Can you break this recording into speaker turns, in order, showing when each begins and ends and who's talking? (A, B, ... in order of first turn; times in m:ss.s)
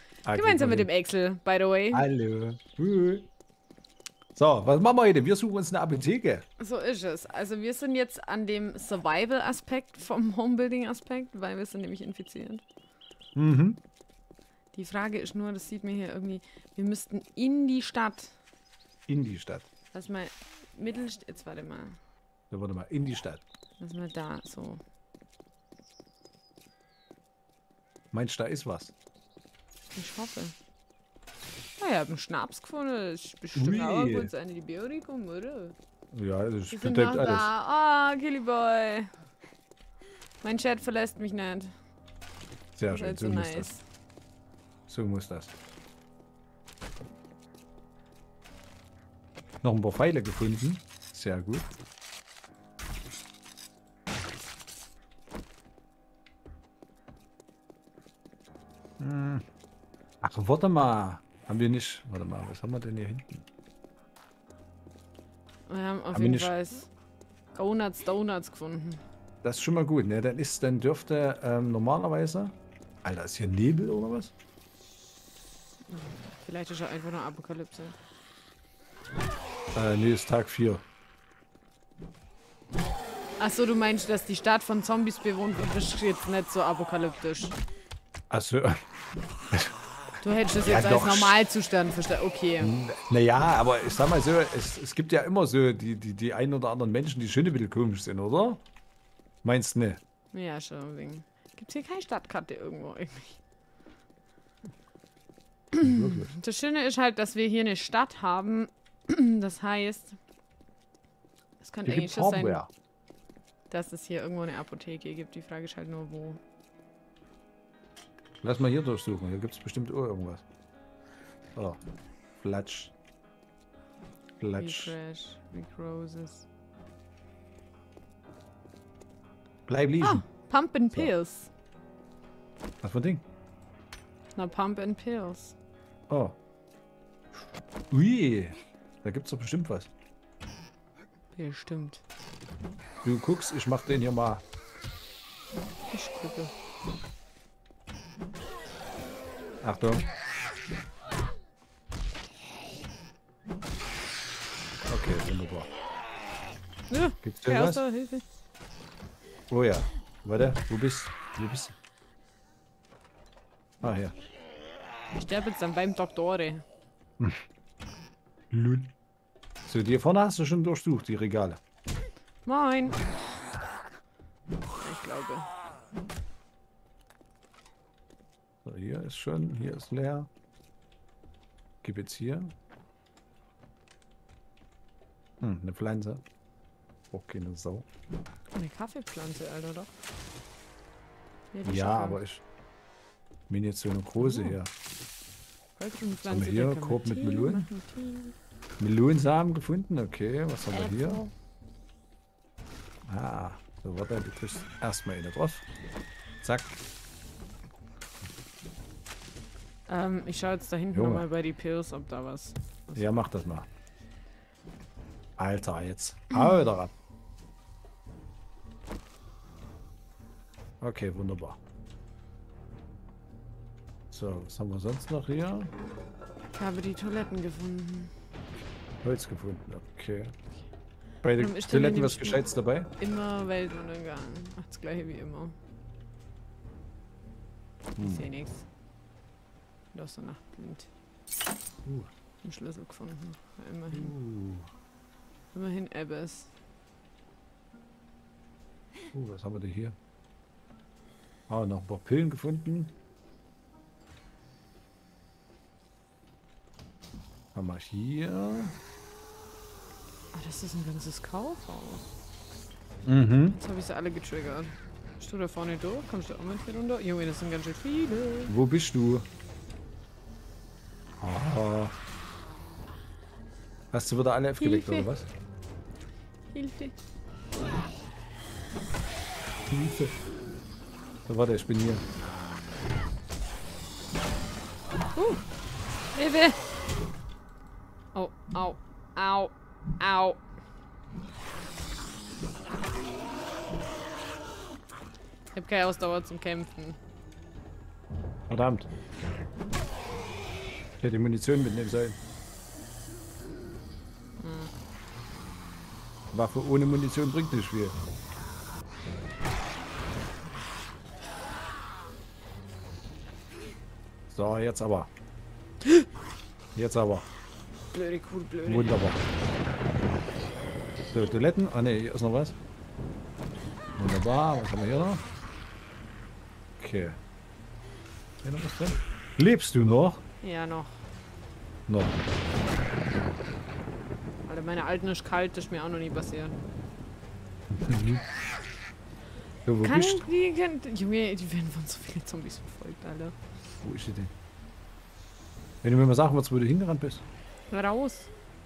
0:00.2-0:00.9 A
0:00.3-0:02.1 B
0:01.9-0:03.3 A
0:04.4-0:06.4 A
0:06.6-0:12.6 B
0:13.4-0:13.8 A
0:14.7-0:18.4 B
0:19.1-0:19.7 A
0:19.9-0:22.0 B
0:22.5-0:23.4 A
0:23.8-0:24.8 B
0:28.1-0:28.9 A
0:30.0-0:30.5 B
0:31.8-0:35.8 B
0:33.6-0:34.3 A
0:36.1-0:37.5 A
0:36.7-0:39.1 B
0:40.4-0:41.7 B
0:42.8-0:43.7 A
0:42.9-0:43.8 B
0:44.9-0:45.5 A
0:49.6-0:51.8 A
0:59.0-0:59.4 A
1:00.2-1:03.5 A
1:05.7-1:06.9 B
1:06.1-1:06.5 A
1:07.5-1:09.0 B
1:09.4-1:14.3 A
1:15.9-1:18.0 B
1:19.8-1:20.8 A
1:23.4-1:27.6 B
1:28.3-1:28.8 A
1:30.2-1:32.7 B
1:30.6-1:31.4 A
1:32.6-1:38.6 A
1:39.4-1:40.0 A
1:40.3-1:43.4 B
1:45.7-1:50.2 B
1:45.8-1:46.3 A
1:51.6-1:52.6 B
1:51.8-1:52.7 A
1:53.7-1:56.4 B
1:58.4-2:00.4 A
2:02.4-2:02.9 A
2:04.4-2:05.0 A
2:04.6-2:06.5 B
2:09.7-2:10.2 A
2:10.0-2:11.5 B
2:12.8-2:13.2 A
2:14.4-2:15.6 B
2:16.1-2:16.4 A
2:17.9-2:19.9 A
2:21.4-2:22.0 B
2:23.0-2:24.4 A
2:25.9-2:26.5 B
2:29.6-2:30.0 A
2:34.9-2:35.7 A
2:36.9-2:38.2 B
2:37.2-2:37.8 A
2:39.5-2:41.8 A
2:43.8-2:44.1 A
2:45.1-2:46.6 B
2:48.5-2:48.9 A
2:49.7-2:51.6 A
2:52.5-2:53.1 B
2:54.8-2:55.5 B
2:58.6-3:00.3 A
3:01.8-3:02.5 A
3:05.4-3:06.2 A
3:07.1-3:07.9 A
3:08.6-3:09.9 B
3:11.5-3:12.2 B
3:11.6-3:12.4 A
3:13.5-3:14.7 A
3:14.2-3:14.6 B
3:15.8-3:18.3 B
3:16.2-3:17.7 A
3:18.8-3:21.2 A
3:20.7-3:21.3 B
3:23.1-3:25.7 A
3:26.4-3:26.8 A
3:29.9-3:32.6 B
3:30.9-3:31.3 A
3:32.9-3:33.7 A
3:35.4-3:36.9 A
3:40.8-3:41.6 A
3:44.1-3:45.7 A
3:46.6-3:48.1 B
3:49.0-3:50.3 A
3:51.2-3:52.9 A
3:51.4-3:55.6 B
3:58.0-3:58.3 A
3:58.0-3:58.7 B
3:59.9-4:00.9 B
4:01.8-4:02.1 A
4:02.4-4:04.2 B
4:03.9-4:04.7 A
4:05.5-4:06.5 B
4:09.1-4:10.0 A
4:11.5-4:12.9 A
4:17.6-4:18.8 A
4:20.3-4:22.0 B
4:23.1-4:23.6 A
4:23.5-4:28.5 B
4:28.5-4:29.3 A
4:31.2-4:31.9 A
4:33.9-4:35.3 A
4:34.6-4:35.1 B
4:36.5-4:37.0 B
4:39.7-4:40.2 A
4:41.3-4:42.1 A
4:45.2-4:45.4 B
4:46.1-4:46.6 B
4:48.1-4:50.4 B
4:55.5-4:57.0 B
4:58.5-4:58.9 A
5:01.0-5:02.2 A
5:04.4-5:04.7 B
5:06.3-5:08.0 A
5:14.3-5:15.1 A
5:16.8-5:17.3 A
5:17.9-5:19.1 B
5:18.6-5:19.2 A
5:21.1-5:22.6 A
5:24.0-5:25.2 A
5:26.8-5:27.2 A
5:28.4-5:30.2 A
5:30.4-5:31.0 B
5:31.9-5:32.2 A
5:34.4-5:36.6 B
5:37.7-5:38.2 A
5:39.7-5:40.3 A
5:39.8-5:43.4 B
5:43.8-5:44.3 A
5:45.8-5:47.2 A
5:47.7-5:48.3 B